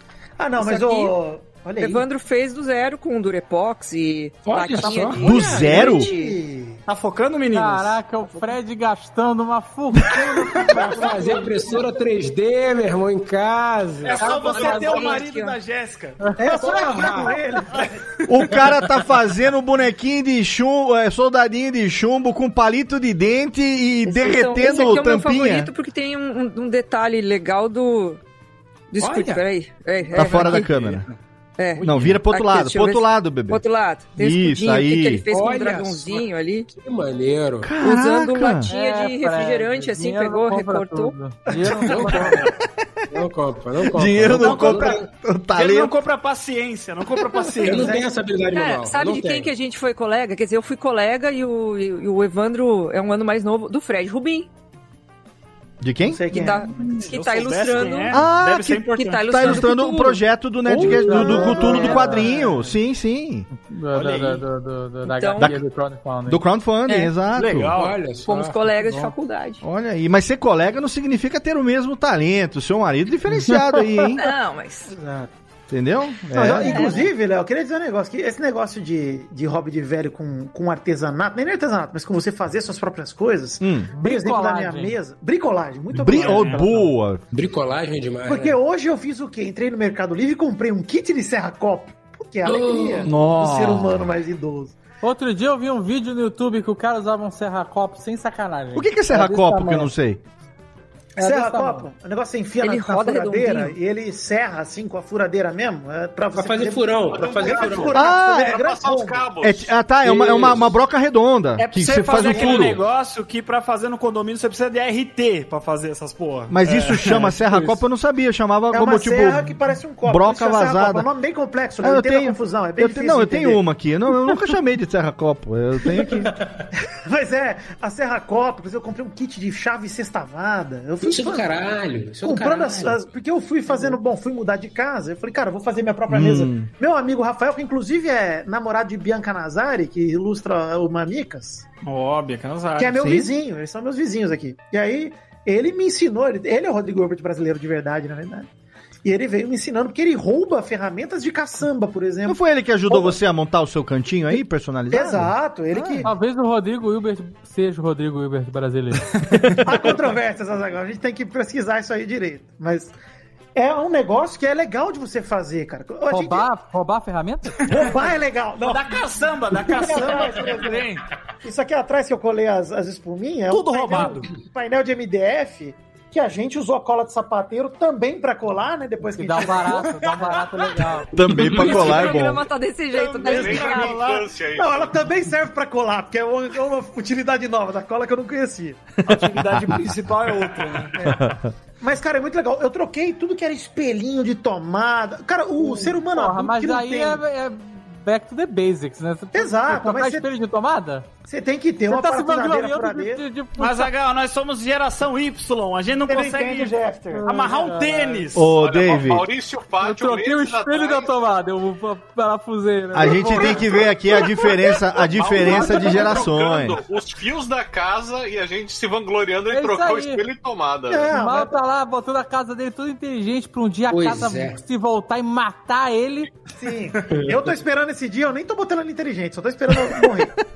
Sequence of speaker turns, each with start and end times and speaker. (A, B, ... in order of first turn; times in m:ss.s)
0:00.4-0:02.1 A
0:00.6-0:01.1 B
0:01.8-0:06.4 B
0:04.4-0:05.8 C
0:04.8-0:05.2 D
0:05.2-0:06.1 E
0:05.5-0:06.8 A
0:06.9-0:08.0 D
0:07.5-0:11.4 F
0:10.7-0:14.7 C
0:10.7-0:11.4 D
0:10.8-0:11.5 A
0:14.0-0:16.2 D
0:14.2-0:15.6 B
0:14.2-0:15.1 F
0:16.4-0:18.0 A
0:16.5-0:17.4 C
0:18.3-0:25.7 E
0:24.0-0:28.2 B
0:28.9-0:30.7 B
0:29.0-0:29.4 D
0:30.1-0:31.1 E
0:30.2-0:31.1 D
0:31.6-0:36.7 B
0:31.8-0:32.2 C
0:31.8-0:33.6 E
0:34.2-0:35.2 E
0:35.3-0:37.8 C
0:37.6-0:38.7 E
0:37.8-0:41.1 B
0:38.7-0:42.4 F
0:41.8-0:42.5 C
0:43.1-0:45.1 C
0:43.9-0:45.9 E
0:44.3-0:45.0 D
0:45.5-0:48.0 D
0:47.6-0:49.5 C
0:47.6-0:48.1 A
0:48.5-0:54.5 B
0:55.8-0:56.2 E
0:56.0-0:56.7 A
0:56.3-0:58.2 B
0:56.7-0:59.7 D
0:58.1-1:03.5 E
0:58.8-1:00.2 B
1:01.0-1:02.6 F
1:01.6-1:01.8 D
1:03.6-1:06.4 F
1:03.9-1:04.4 D
1:05.0-1:05.5 B
1:06.3-1:07.7 E
1:06.9-1:07.1 B
1:07.3-1:08.1 D
1:07.7-1:08.6 C
1:08.2-1:09.6 B
1:09.6-1:14.2 E
1:13.4-1:14.1 F
1:14.1-1:14.9 B
1:14.9-1:15.3 A
1:15.7-1:17.0 E
1:16.3-1:26.7 A
1:16.6-1:17.0 B
1:23.6-1:23.9 E
1:24.0-1:25.0 F
1:25.9-1:27.2 E
1:26.0-1:26.8 D
1:27.3-1:28.6 C
1:28.2-1:34.7 A
1:32.4-1:33.1 C
1:33.0-1:34.1 E
1:35.0-1:39.9 F
1:38.7-1:40.2 E
1:41.2-1:41.9 F
1:41.2-1:49.3 A
1:42.6-1:43.8 B
1:46.3-1:48.0 C
1:47.9-1:48.6 E
1:48.3-1:49.7 G
1:49.4-1:52.8 E
1:50.1-1:50.5 D
1:51.6-1:57.8 D
1:56.5-1:59.5 E
1:58.7-2:03.6 A
2:00.0-2:01.1 E
2:01.8-2:06.3 E
2:07.0-2:11.5 A
2:11.0-2:13.0 C
2:12.2-2:21.6 A
2:16.1-2:16.7 E
2:21.8-2:23.3 D
2:22.8-2:28.5 A
2:29.0-2:32.4 A
2:32.2-2:36.1 E
2:32.9-2:33.1 A
2:34.9-2:36.1 A
2:36.0-2:39.1 F
2:39.6-2:42.9 A
2:43.5-2:46.5 A
2:46.1-2:47.9 F
2:47.7-2:50.9 A
2:48.6-2:51.0 D
2:51.4-3:00.4 A
2:53.5-2:54.3 D
2:59.2-3:01.1 F
3:01.1-3:02.4 E
3:01.4-3:02.2 D
3:01.4-3:04.0 B
3:02.9-3:04.3 D
3:03.2-3:05.0 G
3:04.5-3:09.0 A
3:09.0-3:11.0 D
3:09.1-3:09.8 E
3:11.0-3:11.2 A
3:11.0-3:11.5 E
3:11.8-3:17.2 A
3:15.6-3:21.1 F
3:19.3-3:20.3 A
3:21.2-3:23.2 A
3:21.9-3:23.9 F
3:23.6-3:26.7 D
3:26.1-3:27.2 A
3:27.1-3:28.2 F
3:27.2-3:28.5 D
3:28.3-3:29.3 E
3:28.5-3:31.1 G
3:29.8-3:33.7 F
3:32.9-3:36.8 E
3:33.2-3:33.6 G
3:34.2-3:41.1 G
3:39.5-3:40.2 F
3:40.9-3:41.5 A
3:41.1-3:46.3 F
3:43.9-3:44.6 C
3:46.6-3:50.4 A